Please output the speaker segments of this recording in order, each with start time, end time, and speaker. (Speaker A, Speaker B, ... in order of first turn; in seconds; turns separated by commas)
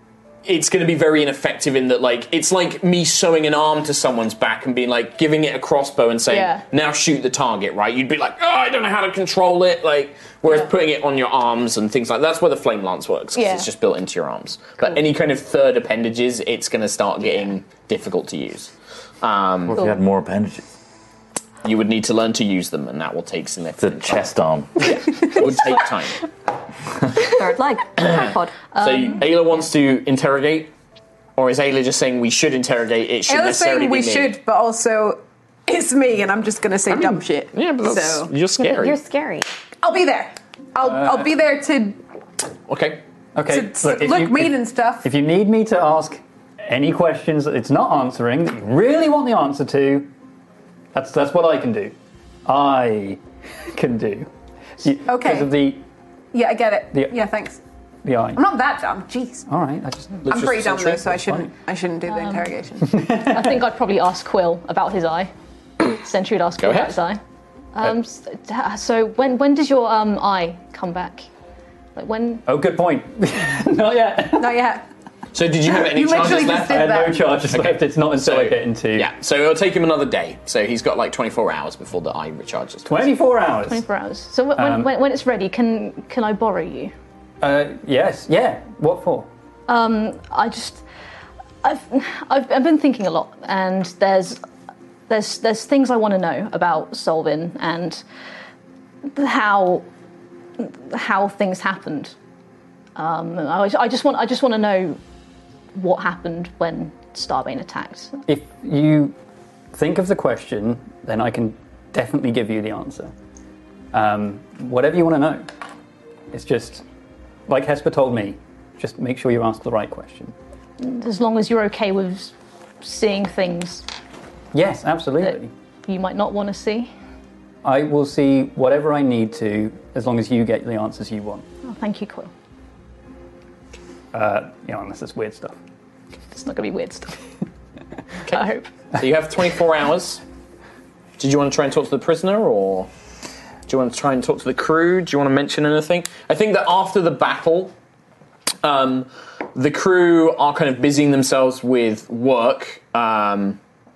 Speaker A: 0.4-19.8, Speaker B: 6.3-6.6, Speaker B: 13.3-13.7, Speaker C: 19.7-20.6, Speaker A: 21.6-26.2, Speaker C: 23.8-25.0, Speaker D: 27.2-28.5, Speaker A: 28.0-30.7, Speaker B: 28.8-29.2, Speaker A: 31.4-34.4, Speaker E: 33.3-38.3, Speaker A: 36.9-39.0, Speaker D: 38.6-39.5, Speaker E: 39.8-42.0, Speaker F: 40.9-41.2, Speaker A: 42.7-43.0, Speaker F: 43.4-50.1, Speaker E: 43.5-45.1, Speaker F: 50.9-51.9, Speaker F: 52.5-53.2, Speaker F: 53.7-55.8, Speaker E: 55.0-55.5, Speaker E: 56.3-57.6, Speaker F: 56.9-57.2, Speaker F: 58.0-58.4, Speaker E: 58.3-59.5, Speaker F: 59.5-60.4, Speaker A: 60.2-61.2, Speaker E: 60.3-63.0, Speaker F: 61.1-61.5, Speaker B: 62.1-62.5, Speaker F: 62.8-63.5, Speaker B: 63.1-67.2, Speaker A: 66.6-67.0, Speaker B: 67.7-71.3, Speaker B: 71.9-72.4, Speaker F: 72.5-74.6, Speaker E: 74.4-74.8, Speaker A: 75.3-83.1, Speaker E: 75.7-77.4, Speaker F: 76.6-79.1, Speaker F: 82.8-83.8, Speaker B: 83.6-86.9, Speaker F: 84.5-84.9, Speaker F: 87.4-89.3, Speaker B: 89.7-90.8, Speaker B: 91.6-94.4, Speaker B: 95.1-98.0, Speaker B: 99.1-99.9, Speaker B: 100.6-102.1, Speaker B: 103.0-105.0, Speaker B: 105.7-108.2, Speaker F: 108.3-109.1, Speaker F: 109.7-113.1, Speaker F: 113.9-115.5, Speaker F: 116.3-116.8, Speaker F: 117.5-120.3, Speaker B: 120.8-123.8, Speaker F: 124.5-125.5, Speaker B: 125.8-126.9, Speaker F: 127.6-131.4, Speaker B: 131.6-132.3, Speaker F: 134.1-135.6, Speaker B: 136.3-137.2, Speaker B: 138.3-138.7, Speaker A: 138.9-140.2, Speaker A: 141.2-142.9, Speaker A: 143.7-147.7, Speaker A: 148.6-153.6